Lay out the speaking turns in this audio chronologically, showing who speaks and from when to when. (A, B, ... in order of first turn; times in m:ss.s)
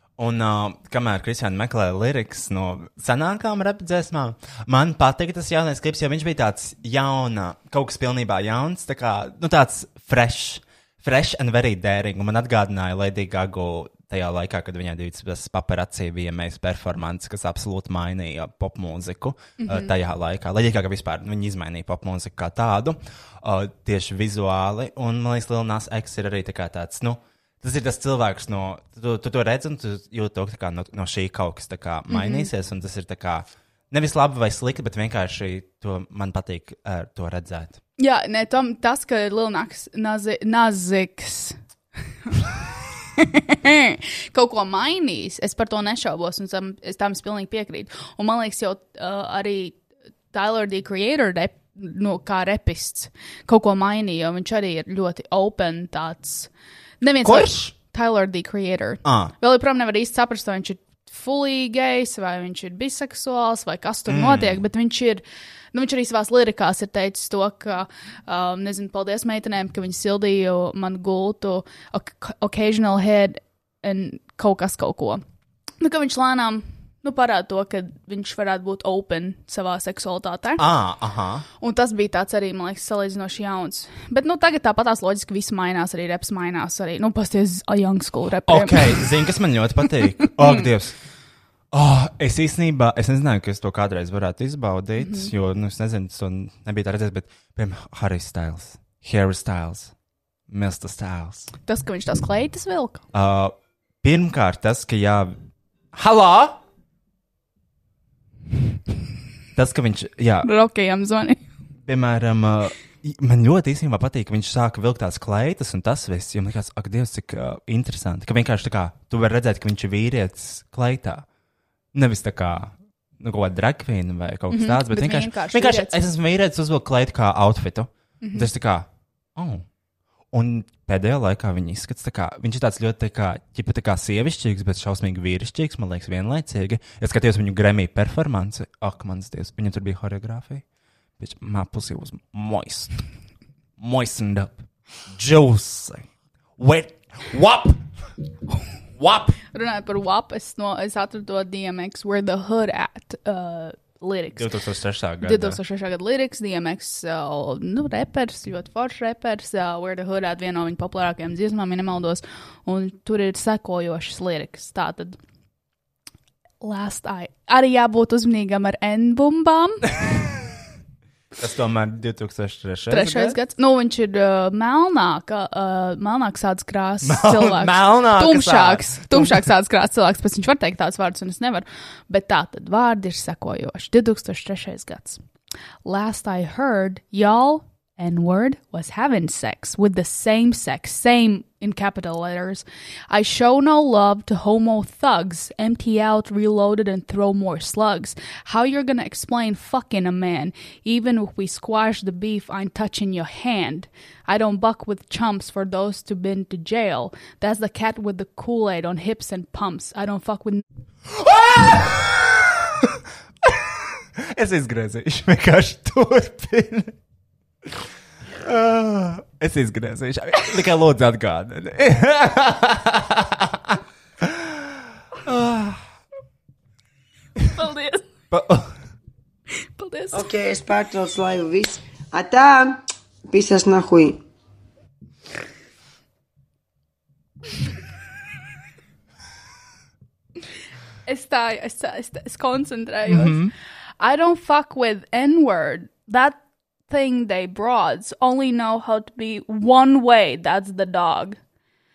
0:00.2-0:37.8 A
0:19.6-0:19.9 B
0:32.1-0:32.5 B
0:38.0-0:41.6 B
0:43.2-0:49.8 B
0:50.3-1:15.2 B
0:57.2-0:57.7 A
0:59.0-0:59.3 A
1:04.1-1:04.6 A
1:15.8-1:20.6 B
1:20.6-1:21.4 A
1:21.6-1:29.1 B
1:28.4-1:31.0 A
1:31.7-1:39.9 A
1:35.0-1:35.3 B
1:40.5-1:41.5 A
1:41.6-1:43.0 B
1:43.1-1:45.4 A
1:45.9-1:46.6 A
1:49.6-1:50.5 A
1:50.4-1:51.4 B
1:51.8-2:01.2 A
2:01.9-2:09.6 A
2:04.5-2:06.0 B
2:08.2-2:08.5 B
2:10.3-2:20.6 A
2:21.2-2:23.0 A
2:23.8-2:26.1 A
2:26.6-2:27.8 A
2:29.0-2:29.4 A
2:29.5-2:34.5 B
2:34.3-2:35.6 A
2:35.2-2:45.2 B
2:46.6-2:49.9 B
2:51.4-2:53.4 A
2:52.9-3:05.2 B
2:57.0-2:59.5 A
3:05.8-3:30.6 B
3:31.1-3:37.0 A
3:38.4-3:45.8 A
3:47.4-3:48.0 B
3:48.3-3:48.7 A
3:49.8-3:50.2 B
3:50.1-3:54.2 C
4:01.0-4:03.4 B
4:03.0-4:03.5 A
4:04.0-4:11.4 B